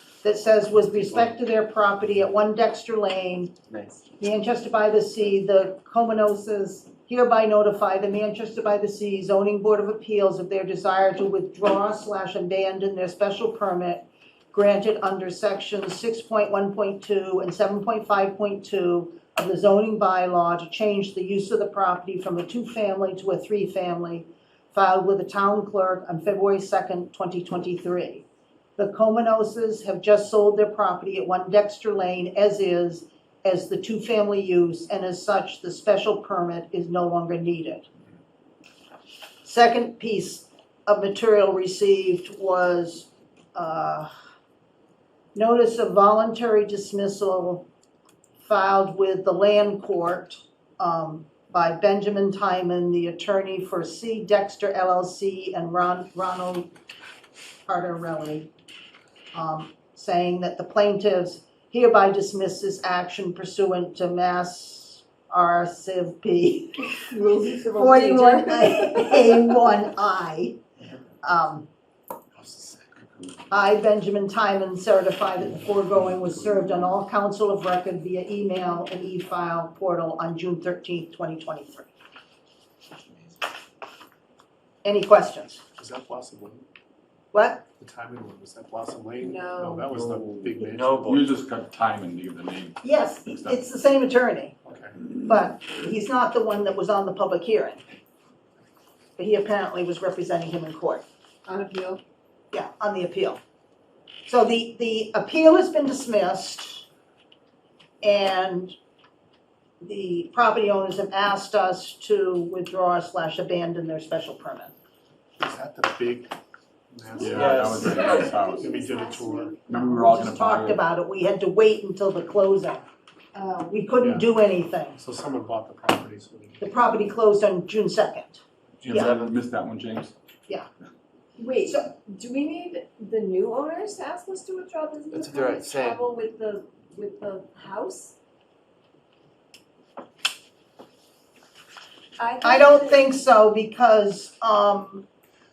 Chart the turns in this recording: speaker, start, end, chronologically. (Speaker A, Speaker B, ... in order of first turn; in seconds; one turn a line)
Speaker A: 0.2-3.5
Speaker B: 3.7-4.0
Speaker A: 4.2-28.2
Speaker A: 28.8-37.9
Speaker A: 39.4-44.1
Speaker A: 45.4-47.7
Speaker A: 48.4-56.7
Speaker A: 57.7-58.5
Speaker A: 59.3-66.9
Speaker C: 66.9-69.3
Speaker A: 67.7-70.6
Speaker A: 71.2-71.7
Speaker B: 72.4-72.9
Speaker A: 73.5-81.9
Speaker A: 84.8-85.6
Speaker D: 85.8-86.6
Speaker A: 87.3-87.7
Speaker D: 87.8-91.2
Speaker C: 89.2-89.9
Speaker B: 90.6-91.3
Speaker E: 91.1-93.6
Speaker A: 92.8-94.5
Speaker D: 94.7-95.0
Speaker A: 95.2-97.8
Speaker A: 99.2-101.0
Speaker C: 101.5-102.0
Speaker A: 102.5-103.4
Speaker A: 104.3-106.9
Speaker A: 108.0-108.8
Speaker A: 109.8-114.7
Speaker D: 115.4-116.3
Speaker D: 116.9-118.0
Speaker C: 117.2-119.6
Speaker E: 117.2-118.8
Speaker B: 117.3-118.3
Speaker D: 118.6-119.6
Speaker E: 119.7-120.8
Speaker A: 119.8-122.9
Speaker C: 123.3-123.7
Speaker A: 123.6-125.0
Speaker D: 124.0-124.3
Speaker D: 125.0-126.7
Speaker A: 126.6-129.1
Speaker E: 128.8-130.1
Speaker B: 129.0-129.4
Speaker C: 131.4-138.2
Speaker A: 131.6-131.9
Speaker B: 135.1-136.0
Speaker C: 142.2-143.2
Speaker A: 142.4-145.1